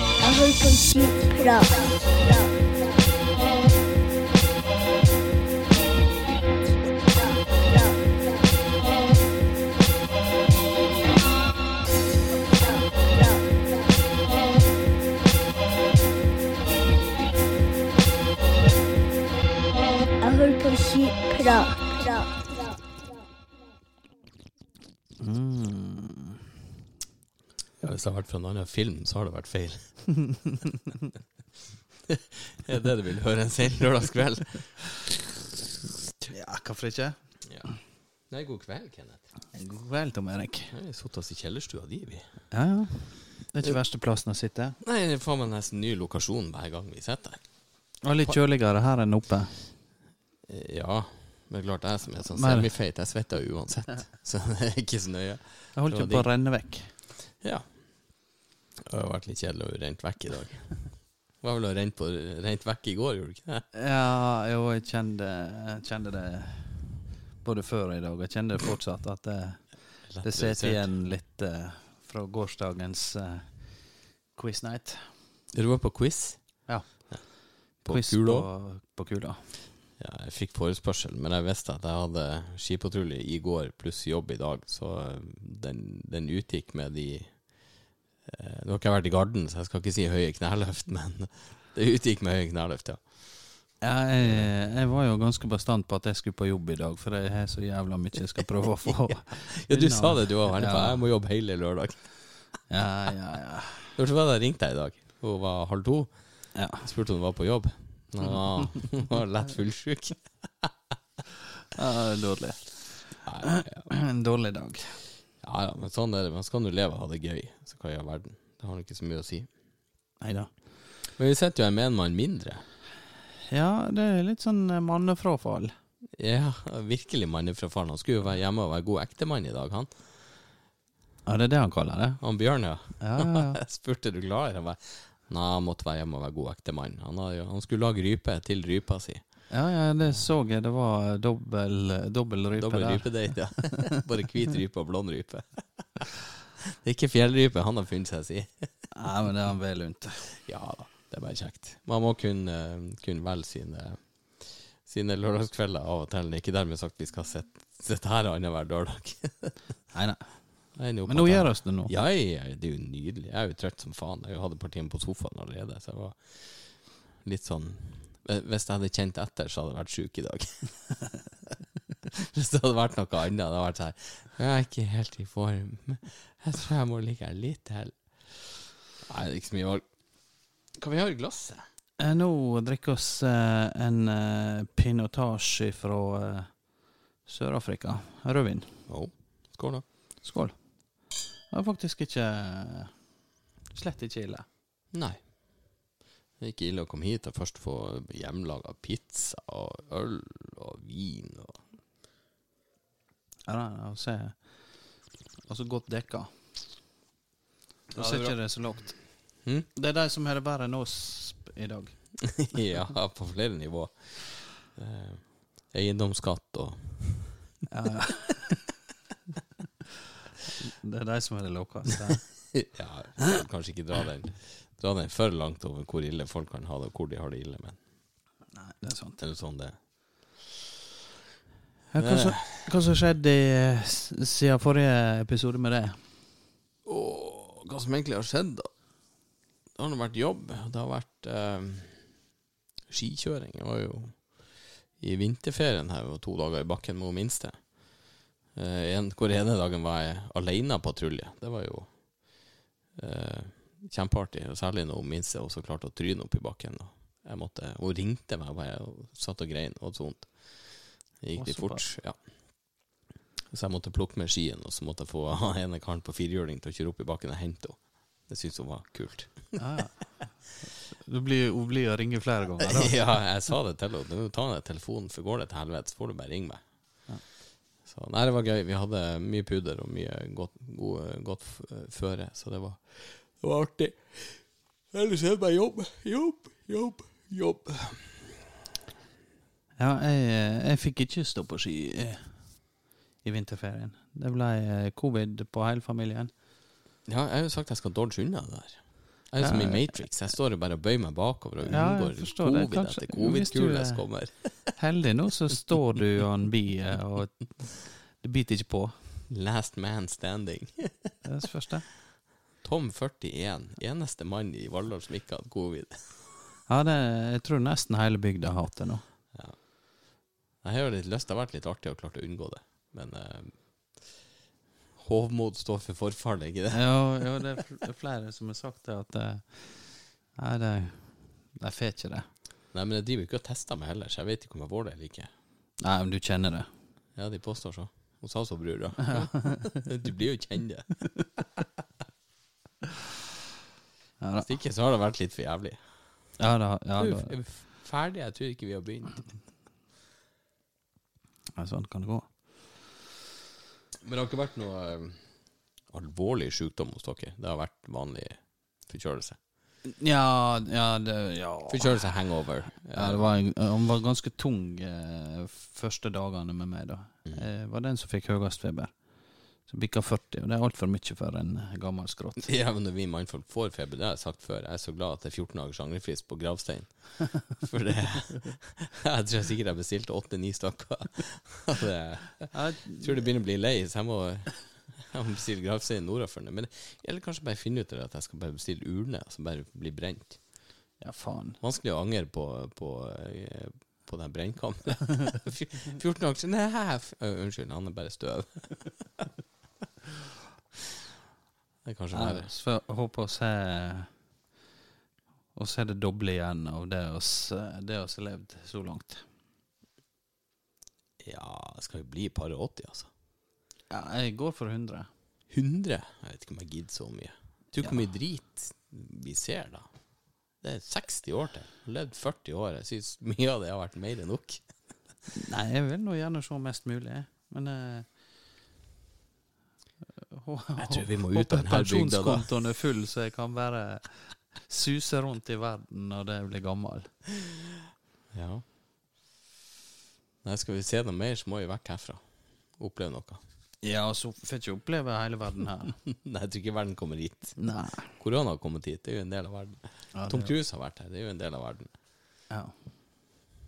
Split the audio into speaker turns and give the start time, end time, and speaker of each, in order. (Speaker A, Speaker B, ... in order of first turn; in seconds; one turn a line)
Speaker A: 0.2-2.4
Speaker A: 7.6-7.9
Speaker A: 20.2-22.5
Speaker B: 25.2-26.4
Speaker C: 27.8-30.1
Speaker C: 32.1-35.1
Speaker B: 36.3-37.3
Speaker C: 38.3-39.2
Speaker B: 39.5-40.7
Speaker C: 40.7-42.4
Speaker B: 42.5-44.8
Speaker C: 44.8-47.5
Speaker B: 48.0-49.6
Speaker C: 50.5-56.3
Speaker B: 52.3-52.7
Speaker B: 55.7-57.0
Speaker C: 57.4-58.3
Speaker C: 58.8-63.7
Speaker B: 63.7-66.9
Speaker B: 67.4-75.1
Speaker C: 70.1-70.9
Speaker C: 75.5-78.5
Speaker B: 76.7-79.6
Speaker C: 80.0-94.5
Speaker B: 93.8-101.0
Speaker C: 98.8-102.3
Speaker B: 102.7-104.0
Speaker C: 104.0-110.7
Speaker B: 106.5-106.9
Speaker B: 111.7-115.0
Speaker C: 113.2-113.9
Speaker C: 115.4-119.5
Speaker B: 120.2-120.5
Speaker C: 121.1-122.6
Speaker B: 123.5-125.7
Speaker C: 126.1-130.0
Speaker B: 131.2-133.6
Speaker C: 132.2-139.5
Speaker B: 139.5-143.8
Speaker C: 142.6-148.9
Speaker B: 148.9-150.3
Speaker C: 150.4-159.8
Speaker B: 159.9-161.9
Speaker C: 160.7-171.1
Speaker C: 172.1-178.1
Speaker C: 179.0-179.8
Speaker C: 180.7-181.6
Speaker B: 182.0-188.8
Speaker C: 188.9-189.8
Speaker B: 190.2-192.9
Speaker B: 193.7-194.4
Speaker C: 194.9-195.8
Speaker C: 196.4-201.6
Speaker B: 203.5-206.3
Speaker B: 207.9-209.2
Speaker C: 207.9-208.8
Speaker B: 209.7-212.5
Speaker C: 212.3-217.4
Speaker B: 217.7-218.6
Speaker B: 220.6-222.6
Speaker C: 222.5-227.8
Speaker B: 228.5-229.2
Speaker C: 229.2-230.4
Speaker B: 231.9-236.0
Speaker C: 232.0-232.8
Speaker C: 236.8-238.7
Speaker C: 239.7-242.1
Speaker C: 242.9-262.9
Speaker B: 261.3-261.9
Speaker C: 263.5-269.6
Speaker B: 269.6-273.2
Speaker C: 272.6-276.6
Speaker C: 277.8-288.4
Speaker B: 289.8-296.3
Speaker C: 297.1-304.7
Speaker B: 299.4-299.9
Speaker B: 301.6-304.0
Speaker B: 304.7-309.0
Speaker C: 309.3-311.1
Speaker B: 311.2-311.9
Speaker C: 312.6-316.3
Speaker B: 316.7-319.0
Speaker C: 320.6-324.1
Speaker C: 324.9-327.0
Speaker B: 326.7-332.3
Speaker C: 332.7-335.3
Speaker B: 335.8-336.7
Speaker C: 337.1-340.9
Speaker B: 344.2-344.5
Speaker C: 344.4-345.8
Speaker B: 346.4-347.3
Speaker C: 347.0-349.3
Speaker B: 351.6-352.3
Speaker C: 354.0-355.3
Speaker C: 355.9-359.4
Speaker B: 359.8-362.2
Speaker C: 361.7-363.2
Speaker B: 362.9-369.0
Speaker B: 369.6-372.5
Speaker C: 372.4-390.4
Speaker B: 382.5-383.3
Speaker B: 391.0-391.6
Speaker C: 391.6-399.2
Speaker C: 401.8-402.5
Speaker B: 402.1-404.1
Speaker B: 405.5-409.2
Speaker C: 411.2-413.1
Speaker B: 413.9-415.1
Speaker C: 415.5-419.9
Speaker C: 420.6-424.6
Speaker B: 425.3-428.1
Speaker B: 430.3-437.1
Speaker C: 430.8-432.5
Speaker C: 438.3-438.6
Speaker C: 440.4-443.4
Speaker B: 443.8-446.0
Speaker C: 446.1-451.9
Speaker B: 447.6-448.1
Speaker B: 450.1-450.5
Speaker B: 452.5-452.7